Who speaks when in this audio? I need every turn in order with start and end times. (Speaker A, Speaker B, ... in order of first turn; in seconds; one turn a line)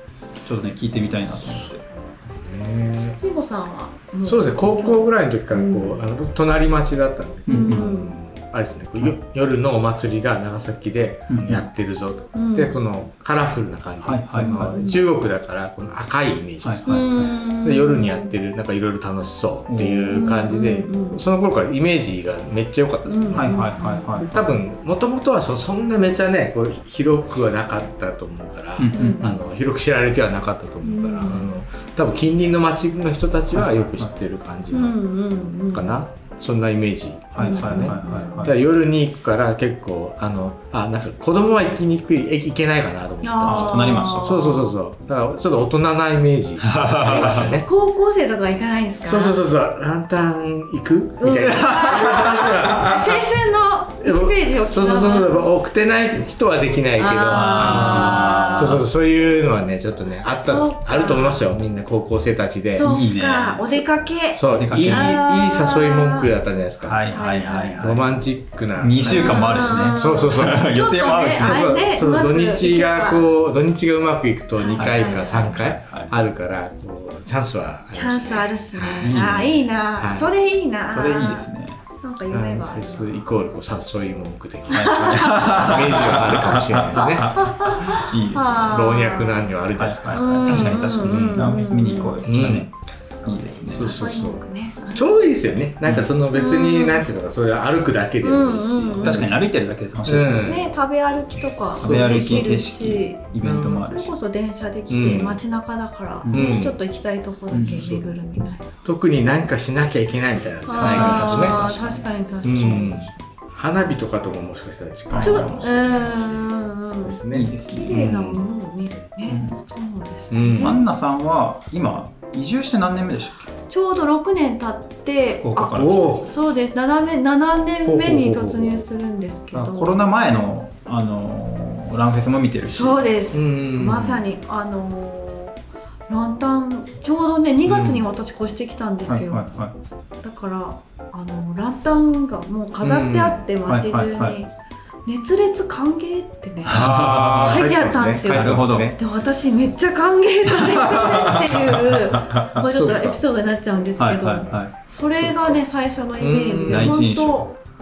Speaker A: 0.4-1.8
Speaker B: 2.3-3.2
Speaker C: 3.2-6.0
Speaker B: 4.2-35.0
Speaker A: 7.5-7.9
Speaker C: 7.5-8.2
Speaker A: 11.3-11.7
Speaker C: 12.3-12.8
Speaker A: 14.0-14.8
Speaker C: 14.5-15.0
Speaker A: 16.6-17.3
Speaker C: 16.9-18.3
Speaker A: 19.7-20.2
Speaker C: 20.1-21.2
Speaker C: 23.1-24.1
Speaker A: 23.3-24.6
Speaker A: 28.8-29.4
Speaker C: 28.9-29.3
Speaker C: 30.8-31.5
Speaker A: 33.5-34.1
Speaker C: 34.7-36.0
Speaker B: 35.7-47.7
Speaker A: 37.4-38.6
Speaker C: 37.4-38.5
Speaker C: 43.2-44.7
Speaker A: 43.4-44.4
Speaker A: 46.7-47.5
Speaker C: 47.1-49.4
Speaker B: 49.0-53.0
Speaker C: 51.2-55.4
Speaker A: 51.4-53.1
Speaker B: 54.0-62.9
Speaker C: 57.0-58.8
Speaker A: 57.3-58.8
Speaker C: 60.3-61.4
Speaker C: 62.7-66.3
Speaker A: 62.8-63.9
Speaker B: 64.3-67.1
Speaker A: 64.5-65.2
Speaker A: 66.8-68.1
Speaker C: 67.1-67.8
Speaker B: 67.8-79.2
Speaker A: 68.8-71.6
Speaker C: 69.1-73.3
Speaker C: 74.6-75.7
Speaker A: 74.7-76.1
Speaker C: 77.9-81.5
Speaker A: 79.0-79.6
Speaker B: 80.0-80.3
Speaker A: 80.9-81.8
Speaker C: 82.0-83.3
Speaker B: 82.3-87.3
Speaker C: 84.7-86.1
Speaker A: 84.7-89.0
Speaker C: 87.0-89.5
Speaker B: 88.7-91.5
Speaker A: 89.8-92.7
Speaker C: 90.1-92.5
Speaker B: 92.2-92.7
Speaker A: 93.2-94.0
Speaker B: 93.6-94.4
Speaker C: 93.7-95.2
Speaker B: 94.9-99.4
Speaker A: 95.8-96.1
Speaker C: 96.3-97.0
Speaker C: 98.2-99.3
Speaker A: 99.0-100.6
Speaker B: 100.0-100.7
Speaker C: 100.4-103.2
Speaker A: 101.8-104.1
Speaker B: 101.8-102.5
Speaker B: 103.4-103.8
Speaker C: 103.8-108.7
Speaker B: 104.9-105.4
Speaker A: 106.2-106.6
Speaker B: 106.3-106.8
Speaker A: 107.5-107.8
Speaker B: 107.7-108.1
Speaker B: 108.8-111.6
Speaker C: 110.7-113.1
Speaker A: 110.8-112.1
Speaker B: 112.4-116.5
Speaker A: 115.1-115.6
Speaker C: 115.2-120.8
Speaker B: 117.0-118.5
Speaker A: 117.3-118.0
Speaker A: 119.3-119.5
Speaker B: 120.3-120.8
Speaker A: 120.6-123.5
Speaker C: 123.7-130.1
Speaker A: 125.4-126.2
Speaker B: 125.7-126.3
Speaker B: 127.8-128.9
Speaker A: 129.5-133.1
Speaker C: 132.6-135.6
Speaker B: 133.3-134.2
Speaker C: 136.1-139.4
Speaker B: 137.7-138.1
Speaker A: 139.1-139.7
Speaker C: 140.2-144.5
Speaker B: 142.8-143.4
Speaker A: 143.7-144.4
Speaker C: 145.1-157.5
Speaker A: 146.6-147.6
Speaker B: 146.7-149.0
Speaker A: 148.3-148.9
Speaker A: 151.0-152.7
Speaker B: 152.6-153.2
Speaker A: 154.0-154.7
Speaker B: 155.1-155.6
Speaker B: 156.2-156.9
Speaker A: 156.6-157.5